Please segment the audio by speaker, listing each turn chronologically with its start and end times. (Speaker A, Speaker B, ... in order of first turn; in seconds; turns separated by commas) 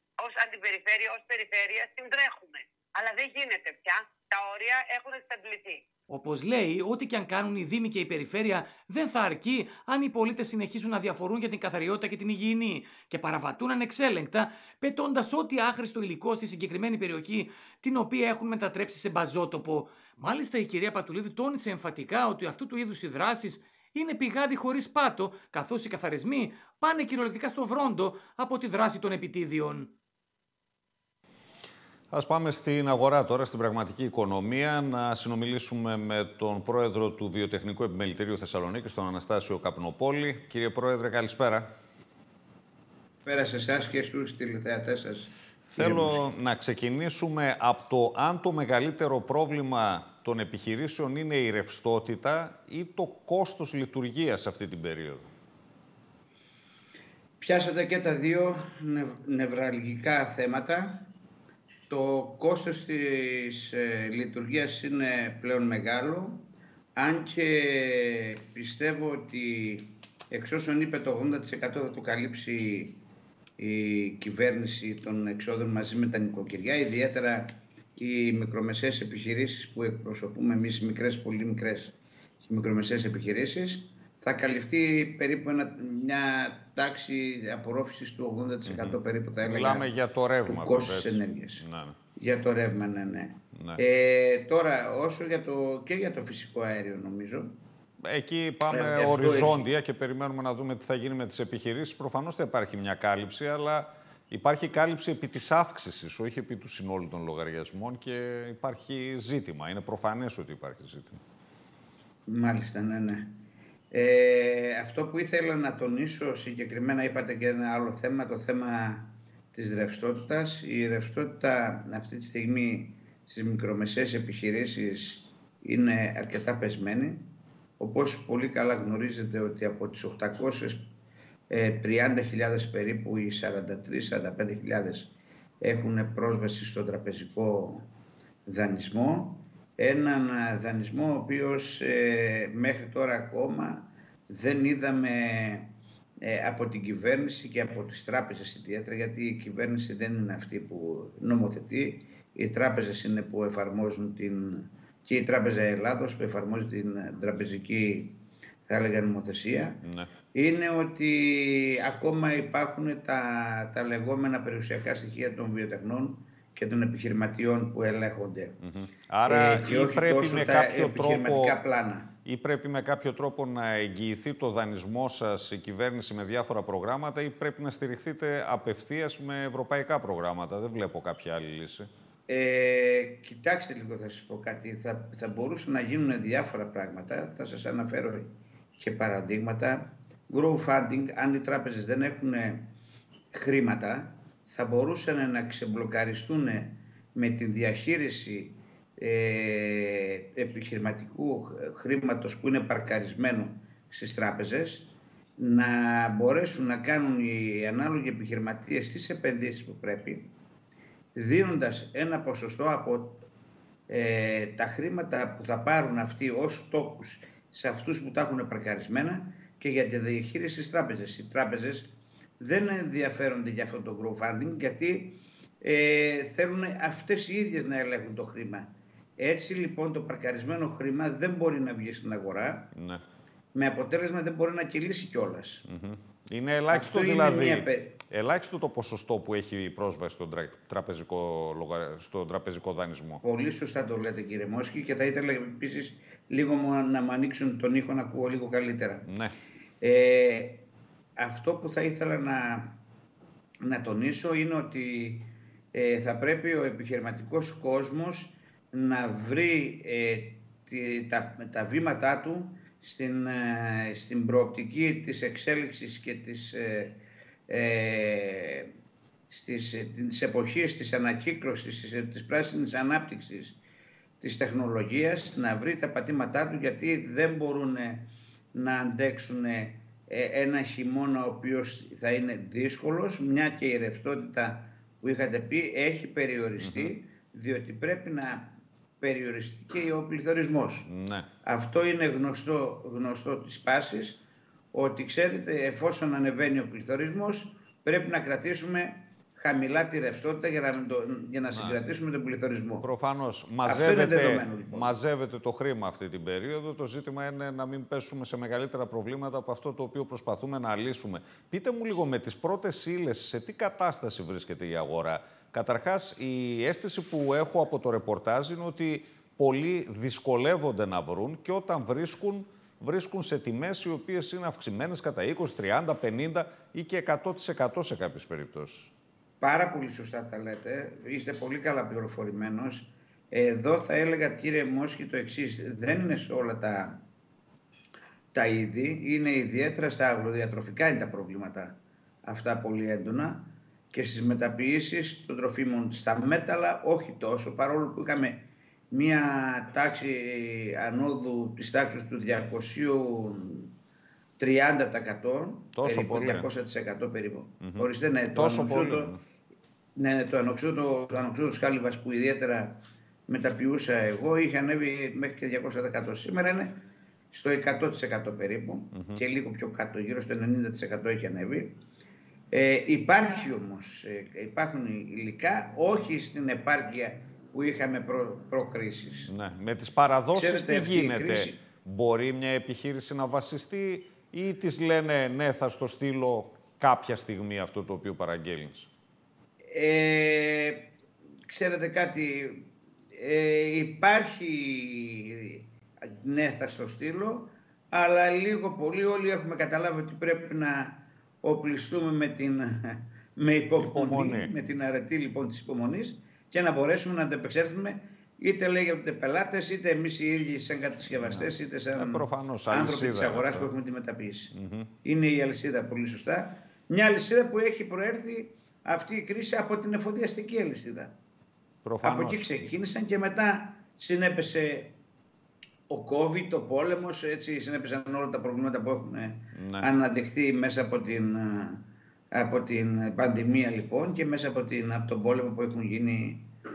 Speaker A: 0.2-5.8, Speaker B: 6.1-29.9, Speaker C: 32.1-41.7, Speaker D: 43.2-46.2, Speaker C: 45.7-55.3, Speaker D: 57.4-61.1, Speaker D: 61.9-73.0, Speaker D: 73.6-89.9, Speaker C: 88.7-92.0, Speaker D: 90.5-91.6, Speaker D: 92.2-97.6, Speaker C: 93.5-93.8, Speaker C: 98.0-111.2, Speaker D: 98.7-99.7, Speaker D: 112.3-113.4, Speaker D: 113.9-127.3, Speaker D: 127.8-130.9, Speaker D: 131.5-137.9, Speaker D: 138.5-168.6, Speaker C: 159.8-160.1, Speaker C: 168.6-171.6, Speaker D: 169.3-172.1, Speaker C: 172.2-181.9, Speaker D: 182.3-192.7, Speaker D: 193.3-210.3, Speaker D: 211.2-213.2, Speaker D: 213.9-232.7, Speaker C: 232.7-233.0, Speaker D: 233.5-235.7, Speaker C: 235.7-243.2, Speaker D: 236.7-238.0, Speaker D: 243.2-249.1, Speaker C: 249.1-249.3, Speaker D: 249.8-250.6, Speaker D: 251.2-252.8, Speaker D: 253.6-268.7, Speaker D: 269.3-273.6, Speaker D: 274.2-290.9, Speaker C: 286.6-286.9, Speaker C: 290.9-291.3, Speaker D: 291.4-294.2, Speaker D: 294.7-302.9, Speaker C: 301.5-301.8, Speaker C: 302.8-328.9, Speaker D: 303.6-305.0, Speaker D: 329.4-337.0, Speaker D: 338.3-353.7, Speaker D: 354.4-359.2, Speaker C: 355.8-356.5, Speaker C: 357.6-359.2, Speaker D: 360.0-366.8, Speaker D: 367.3-371.8, Speaker C: 368.9-369.2, Speaker D: 372.5-379.3, Speaker C: 379.3-388.9, Speaker D: 380.3-381.6, Speaker D: 389.7-390.9, Speaker D: 391.5-414.5, Speaker C: 403.8-404.5, Speaker C: 411.1-413.7, Speaker C: 414.5-414.9, Speaker D: 415.0-421.2, Speaker C: 421.8-422.7, Speaker D: 422.0-425.0, Speaker D: 425.9-436.5, Speaker C: 429.6-429.9